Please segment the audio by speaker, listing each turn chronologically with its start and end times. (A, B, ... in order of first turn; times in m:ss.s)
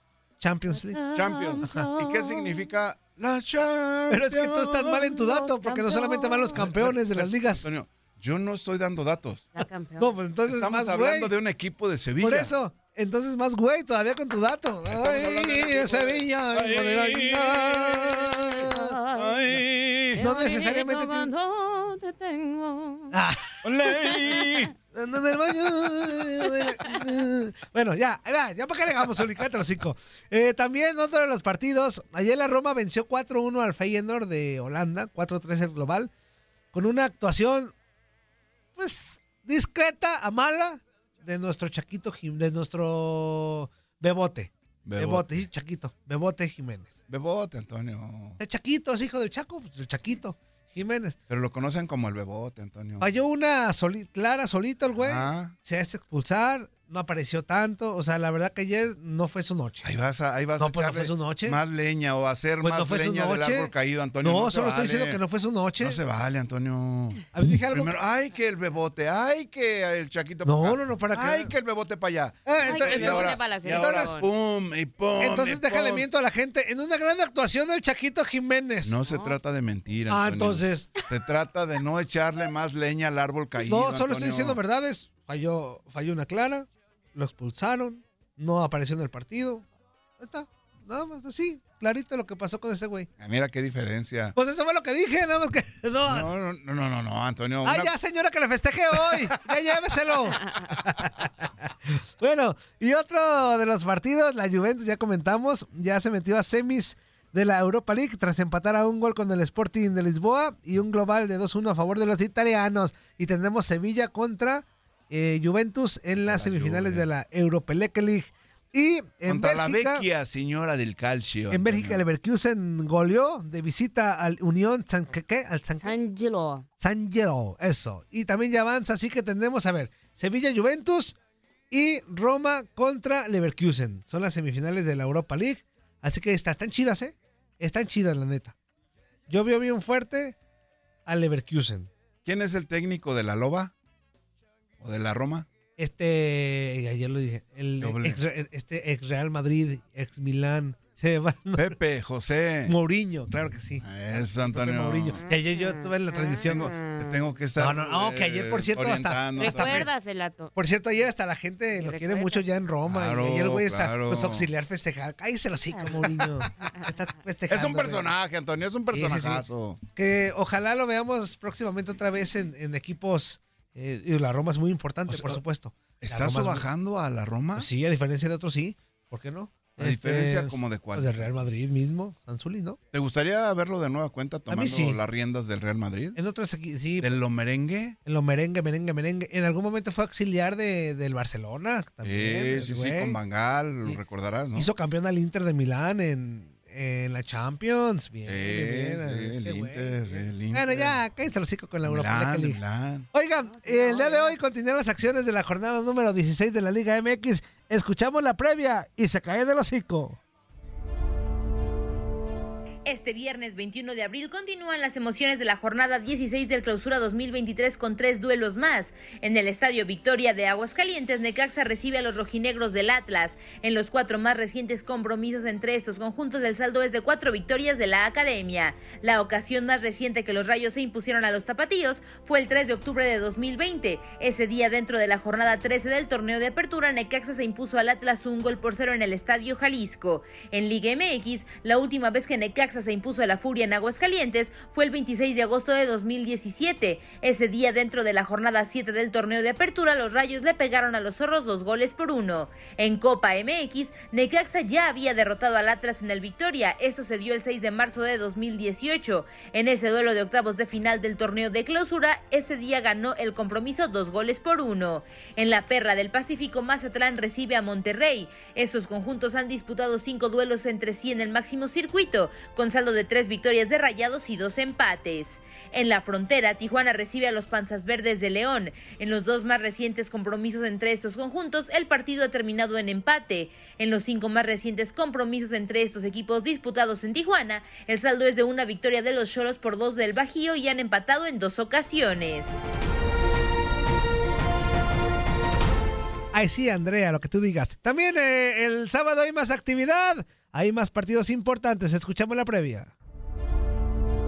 0:00.4-0:01.0 A
0:00.7-0:02.7 B
0:01.1-0:05.1 C
0:04.1-0:07.6 A
0:05.2-0:06.7 B
0:06.5-0:09.5 C
0:09.5-0:10.2 B
0:10.0-0:11.3 A
0:10.4-0:12.5 C
0:12.2-0:18.9 A
0:14.8-0:20.2 C
0:18.7-0:19.6 B
0:20.1-0:23.1 B
0:20.2-0:21.3 A
0:23.1-0:23.6 A
0:23.6-0:24.7 C
0:24.0-0:24.7 B
0:24.9-0:36.1 A
0:26.6-0:27.0 B
0:36.7-0:37.7 A
0:38.8-0:46.9 A
0:44.8-0:45.4 C
0:47.1-0:48.4 C
0:48.4-0:51.2 A
0:51.3-0:53.2 C
0:53.0-0:59.9 A
0:55.0-0:55.5 C
0:59.8-1:05.2 C
1:00.6-1:01.6 A
1:02.6-1:06.0 A
1:05.8-1:16.1 C
1:07.3-1:07.9 A
1:10.4-1:11.5 A
1:12.4-1:14.1 A
1:12.6-1:14.3 B
1:15.2-1:19.0 A
1:18.8-1:24.6 C
1:19.0-1:19.4 B
1:20.1-1:20.9 A
1:23.6-1:29.6 A
1:30.2-1:33.1 A
1:33.2-1:34.3 C
1:34.3-1:36.3 A
1:36.0-1:37.9 C
1:37.6-2:00.0 A
1:39.0-1:39.4 C
1:56.2-1:57.1 C
1:59.2-2:02.0 C
2:01.5-2:05.9 A
2:05.8-2:06.7 B
2:06.8-2:11.2 A
2:11.7-2:18.5 A
2:19.3-2:20.4 A
2:21.0-2:21.9 A
2:22.2-2:23.7 C
2:24.8-2:25.5 C
2:25.8-2:31.7 A
2:27.8-2:28.2 C
2:31.5-2:32.7 C
2:32.6-2:36.7 A
2:33.8-2:35.2 C
2:35.2-2:37.3 B
2:36.4-2:39.9 C
2:37.6-2:39.9 A
2:39.4-2:40.5 B
2:40.5-2:48.1 A
2:41.7-2:42.4 B
2:42.8-2:44.5 C
2:45.7-2:46.1 B
2:46.7-2:46.9 B
2:47.5-2:49.8 C
2:48.9-2:49.4 A
2:50.0-2:56.7 A
2:55.1-2:55.4 C
2:56.0-2:57.7 C
2:57.6-3:02.8 A
2:59.8-3:01.4 C
3:02.9-3:06.2 C
3:04.5-3:05.0 A
3:06.2-3:07.1 A
3:07.0-3:08.0 C
3:08.0-3:13.2 A
3:12.0-3:14.7 C
3:14.5-3:22.6 A
3:18.2-3:21.0 C
3:21.8-3:23.1 C
3:23.1-3:30.2 A
3:23.4-3:24.4 B
3:32.8-4:52.6 D
4:56.3-5:02.9 A